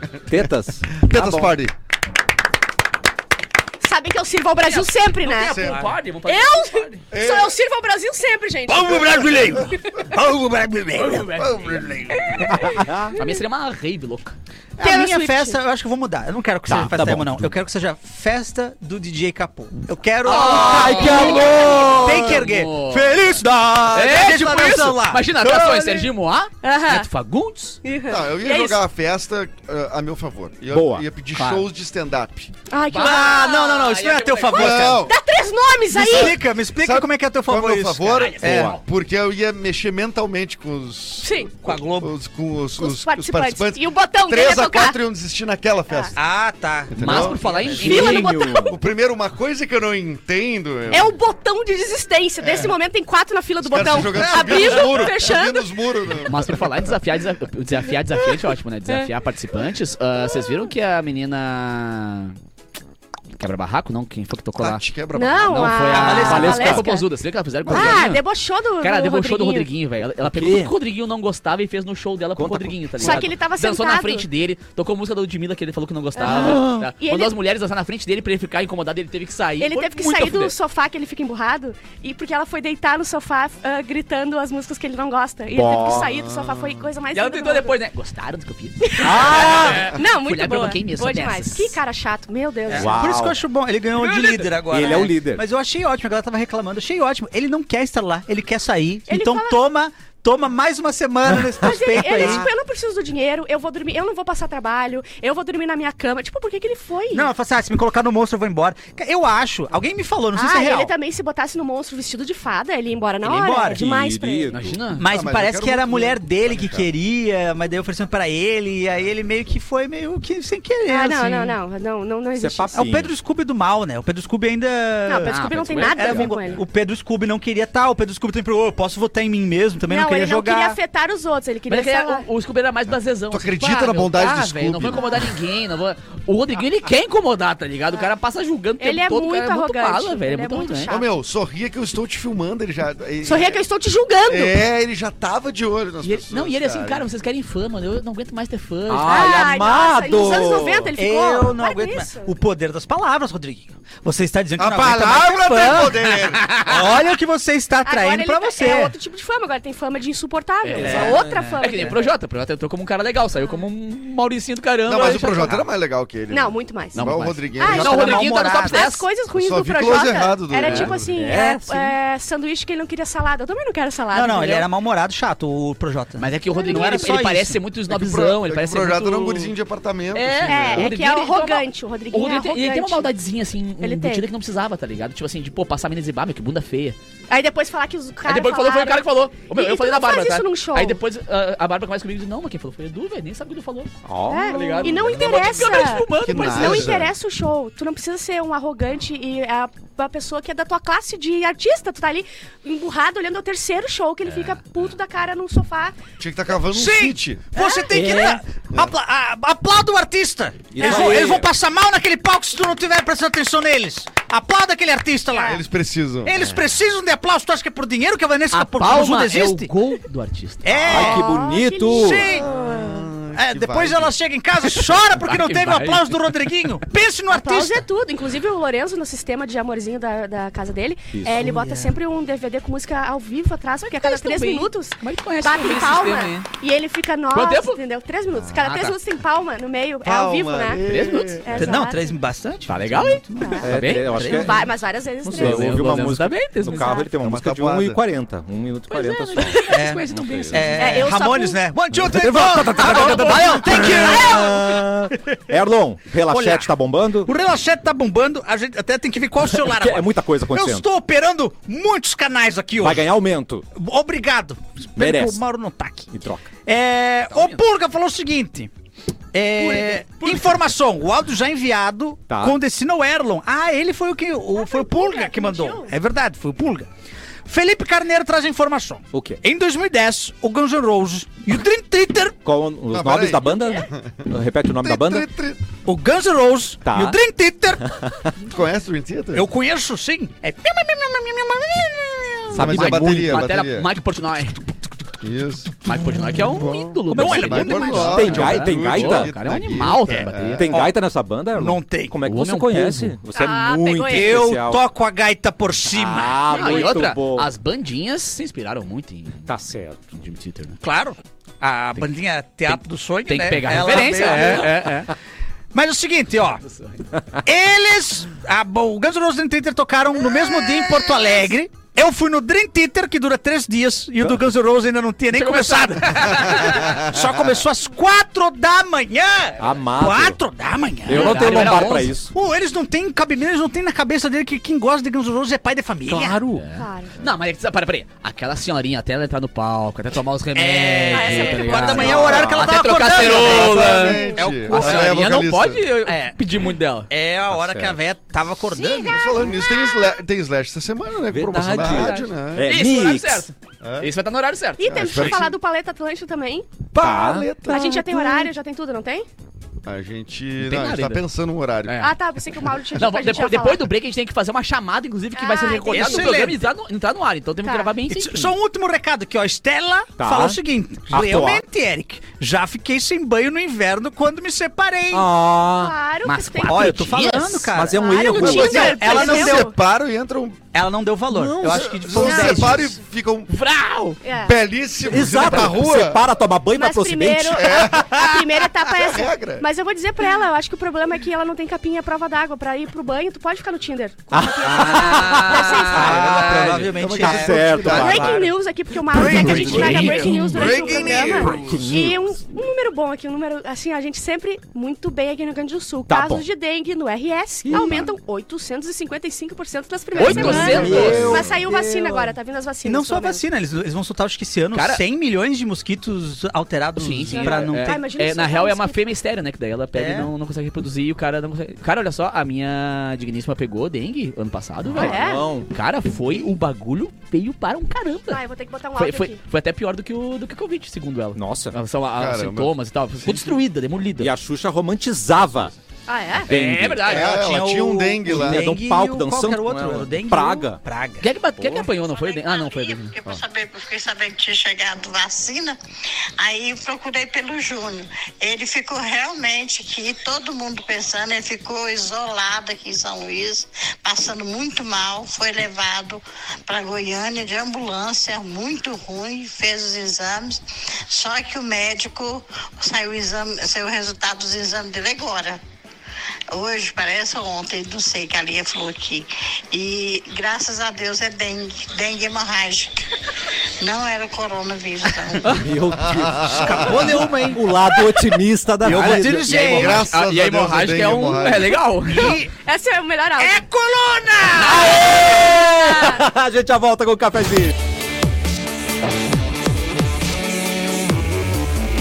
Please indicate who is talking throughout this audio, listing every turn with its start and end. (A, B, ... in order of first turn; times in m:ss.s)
0:00.3-0:01.5 A
0:00.9-0:01.7 B
0:03.8-0:05.7 C
0:04.6-0:07.0 D
0:05.4-0:05.9 B
0:06.3-0:10.0 C
0:07.1-0:07.5 B
0:08.7-0:11.3 E
0:09.1-0:09.5 B
0:11.0-0:12.0 D
0:11.3-0:12.5 B
0:12.1-0:13.3 C
0:12.5-0:13.2 A
0:13.2-0:14.4 D
0:14.8-0:26.0 E
0:14.8-0:15.6 C
0:16.7-0:17.5 A
0:20.2-0:23.4 D
0:20.3-0:22.4 A
0:20.6-0:21.7 C
0:23.9-0:27.8 D
0:26.6-0:27.1 C
0:27.8-0:28.8 C
0:28.1-0:32.5 B
0:30.7-0:31.0 A
0:31.4-0:31.6 D
0:32.7-0:33.9 C
0:32.9-0:34.9 D
0:33.0-0:35.1 E
0:34.5-0:35.2 B
0:34.5-0:36.4 C
0:35.9-0:38.8 E
0:36.0-0:46.2 B
0:38.1-0:38.8 D
0:38.4-0:38.8 A
0:41.2-0:41.5 C
0:41.6-0:42.1 E
0:42.8-0:45.0 C
0:45.9-0:46.1 C
0:46.2-0:47.8 E
0:46.9-0:47.7 B
0:47.0-0:48.6 D
0:47.7-0:48.8 A
0:47.8-0:48.8 C
0:48.7-0:51.1 B
0:50.9-0:55.7 C
0:52.4-0:52.8 B
0:53.6-0:56.7 B
0:56.3-1:02.4 D
0:58.2-0:59.1 C
1:00.2-1:00.6 C
1:03.4-1:04.8 D
1:04.6-1:05.9 B
1:05.1-1:07.1 C
1:05.4-1:08.2 D
1:06.0-1:06.8 A
1:06.0-1:06.7 E
1:07.7-1:09.7 C
1:08.8-1:20.6 D
1:10.2-1:10.7 A
1:12.4-1:13.3 A
1:13.0-1:14.3 C
1:16.2-1:17.3 C
1:16.2-1:16.9 A
1:19.6-1:27.8 C
1:25.5-1:26.1 A
1:25.8-1:26.9 B
1:27.1-1:31.8 D
1:28.8-1:33.1 C
1:29.0-1:29.9 A
1:32.7-1:42.5 E
1:32.7-1:33.4 A
1:34.6-1:35.4 A
1:39.1-1:39.6 C
1:41.6-1:47.3 C
1:47.1-1:50.9 E
1:50.3-1:54.6 C
1:53.2-1:53.8 E
1:53.7-1:54.8 A
1:54.5-1:55.0 D
1:55.0-2:01.6 E
1:55.1-1:56.9 B
2:00.9-2:02.8 C
2:02.4-2:03.1 A
2:02.7-2:10.8 E
2:05.1-2:06.6 C
2:05.3-2:06.3 D
2:09.9-2:12.2 C
2:11.7-2:21.0 D
2:13.3-2:15.2 B
2:14.9-2:15.3 C
2:18.8-2:21.1 C
2:20.9-2:23.6 B
2:23.2-2:24.6 C
2:24.3-2:27.1 B
2:26.0-2:29.4 D
2:28.9-2:30.9 A
2:29.1-2:32.3 C
2:31.0-2:38.9 E
2:34.6-2:36.5 B
2:36.3-2:36.7 D
2:37.9-2:42.1 C
2:40.6-2:45.7 D
2:40.8-2:41.6 E
2:40.8-2:41.5 A
2:43.4-2:43.6 C
2:44.9-2:48.1 B
2:46.3-2:47.0 C
2:47.0-2:49.1 D
2:47.6-2:54.7 C
2:47.7-2:48.8 E
2:49.3-2:51.1 B
2:50.6-2:50.9 D
2:51.2-2:51.9 A
2:54.1-2:57.6 E
2:56.2-2:59.5 D
2:56.5-2:57.2 C
2:57.9-3:00.9 B
3:00.1-3:07.0 D
3:00.5-3:03.1 C
3:03.8-3:04.3 C
3:07.3-3:11.0 C
3:08.2-3:13.9 D
3:14.1-3:15.0 A
3:14.2-3:26.0 C
3:14.5-3:16.9 D
3:14.9-3:15.5 B
3:16.2-3:17.1 B
3:26.2-3:27.4 B
3:26.7-3:35.6 E
3:27.5-3:28.3 C
3:27.9-3:28.4 A
3:30.7-3:31.5 A
3:35.3-3:35.6 C
3:35.5-3:36.4 B
3:36.2-3:39.7 E
3:38.5-3:41.1 D
3:40.6-3:41.2 E
3:40.8-3:42.3 A
3:41.0-3:43.0 C
3:41.9-3:42.5 E
3:42.4-3:44.1 B
3:43.4-3:47.8 E
3:45.2-3:46.3 D
3:47.3-4:02.2 C
3:51.1-3:51.7 A
3:54.0-3:56.5 D
3:57.3-3:57.8 D
3:58.5-3:59.0 D
4:00.0-4:01.8 B
4:00.8-4:01.7 D
4:01.5-4:04.6 E
4:02.7-4:04.2 D
4:03.4-4:06.0 C
4:03.6-4:04.7 A
4:05.2-4:09.6 A
4:05.3-4:07.0 D
4:06.7-4:07.1 C
4:07.2-4:08.0 B
4:08.9-4:11.1 D
4:09.7-4:15.4 E
4:10.1-4:10.8 A
4:10.8-4:11.6 C
4:11.9-4:17.3 A
4:12.8-4:14.1 D
4:12.8-4:13.3 C
4:16.3-4:23.1 E
4:19.5-4:20.8 A
4:22.8-4:23.6 A
4:23.8-4:26.1 E
4:25.0-4:25.4 A
4:26.1-4:26.5 A
4:26.6-4:28.7 E
4:27.3-4:27.6 D
4:29.3-4:36.9 E
4:29.6-4:30.0 C
4:32.3-4:32.6 A
4:34.6-4:35.9 C
4:37.5-4:42.4 E
4:39.1-4:39.4 A
4:42.4-4:45.3 A
4:42.9-4:45.6 B
4:43.5-4:43.8 C
4:45.8-4:48.0 E
4:46.8-4:47.2 A
4:48.5-4:49.5 B
4:49.4-4:53.0 E
4:52.6-4:53.9 B
4:52.6-4:54.6 D
4:52.6-4:53.0 A
4:55.2-4:55.8 B
4:55.8-5:00.6 D
4:56.5-5:00.7 B
4:57.1-4:59.3 A
4:57.1-4:58.4 E
5:00.1-5:00.9 E
5:00.4-5:04.8 A
5:01.6-5:02.2 E
5:02.3-5:03.1 D
5:03.3-5:04.5 C
5:04.1-5:06.5 E
5:05.9-5:07.5 A
5:06.5-5:09.5 D
5:09.5-5:10.0 A
5:10.1-5:10.8 D
5:10.8-5:15.1 E
5:12.7-5:15.0 D
5:14.1-5:14.8 A
5:15.7-5:16.6 E
5:16.6-5:17.0 D
5:17.4-5:36.4 E
5:25.3-5:27.0 D
5:29.6-5:30.4 A
5:31.0-5:32.3 A
5:31.1-5:32.2 D
5:36.1-5:36.6 A
5:36.5-5:47.1 D
5:36.8-5:37.2 C
5:40.6-5:45.2 E
5:41.1-5:42.4 C
5:42.1-5:42.7 A
5:43.0-5:45.9 B
5:44.0-5:44.4 C
5:46.1-5:46.4 E
5:47.1-5:49.2 E
5:47.5-5:48.0 A
5:48.7-5:50.0 C
5:49.1-5:52.7 B
5:51.3-5:53.5 A
5:51.8-5:55.5 D
5:53.8-5:54.1 B
5:54.8-5:56.7 C
5:54.8-5:55.5 B
5:56.9-5:58.5 B
5:57.0-5:57.6 A
5:57.7-5:59.3 C
5:59.8-6:02.1 B
6:00.6-6:01.2 D
6:01.8-6:02.1 D
6:02.0-6:03.8 C
6:03.0-6:08.5 D
6:05.4-6:06.4 C
6:05.9-6:06.6 E
6:07.6-6:07.9 C
6:08.1-6:15.3 E
6:10.2-6:10.6 A
6:11.1-6:11.6 A
6:15.1-6:15.9 A
6:15.7-6:17.4 C
6:16.2-6:17.7 D
6:16.7-6:19.7 E
6:17.7-6:19.0 A
6:17.9-6:19.8 C
6:18.4-6:20.6 B
6:20.7-6:22.9 E
6:21.3-6:22.3 A
6:21.6-6:23.5 B
6:22.2-6:22.9 C
6:23.5-6:24.2 D
6:24.2-6:24.6 C
6:24.4-6:26.2 B
6:25.1-6:27.9 A
6:26.7-6:36.6 C
6:27.5-6:29.7 B
6:34.3-6:38.5 A
6:34.6-6:36.9 D
6:35.9-6:38.6 E
6:37.0-6:38.3 B
6:37.9-6:53.4 C
6:39.1-6:42.2 A
6:39.1-6:40.4 E
6:39.3-6:41.8 B
6:39.7-6:40.3 D
6:46.1-6:46.4 A
6:47.6-6:48.1 A
6:50.2-6:51.4 D
6:50.2-6:52.3 A
6:50.7-6:51.4 B
6:52.8-6:58.0 E
6:54.7-6:55.0 D
6:57.0-7:08.4 D
6:57.2-6:59.1 C
6:59.9-7:00.3 E
7:04.9-7:05.7 A
7:04.9-7:05.5 C
7:08.3-7:09.4 C
7:08.9-7:14.3 D
7:11.4-7:11.8 A
7:12.1-7:12.7 B
7:13.2-7:13.5 B
7:14.2-7:15.7 A
7:16.1-7:16.5 C
7:16.5-7:17.2 A
7:16.5-7:17.3 D
7:17.0-7:18.6 B
7:17.1-7:21.3 E
7:18.3-7:20.8 A
7:21.2-7:23.2 D
7:21.7-7:22.1 C
7:22.5-7:25.8 F
7:26.4-7:45.6 F
7:46.5-7:53.0 F
7:53.8-7:55.6 F
7:55.5-7:59.6 A
7:56.0-7:57.3 B
7:56.5-7:57.7 E
7:58.8-8:00.0 E
7:58.8-8:02.4 D
7:59.4-8:01.8 B
8:02.0-8:02.5 E
8:02.1-8:03.6 C
8:03.4-8:05.0 E
8:04.6-8:07.8 A
8:04.9-8:06.2 C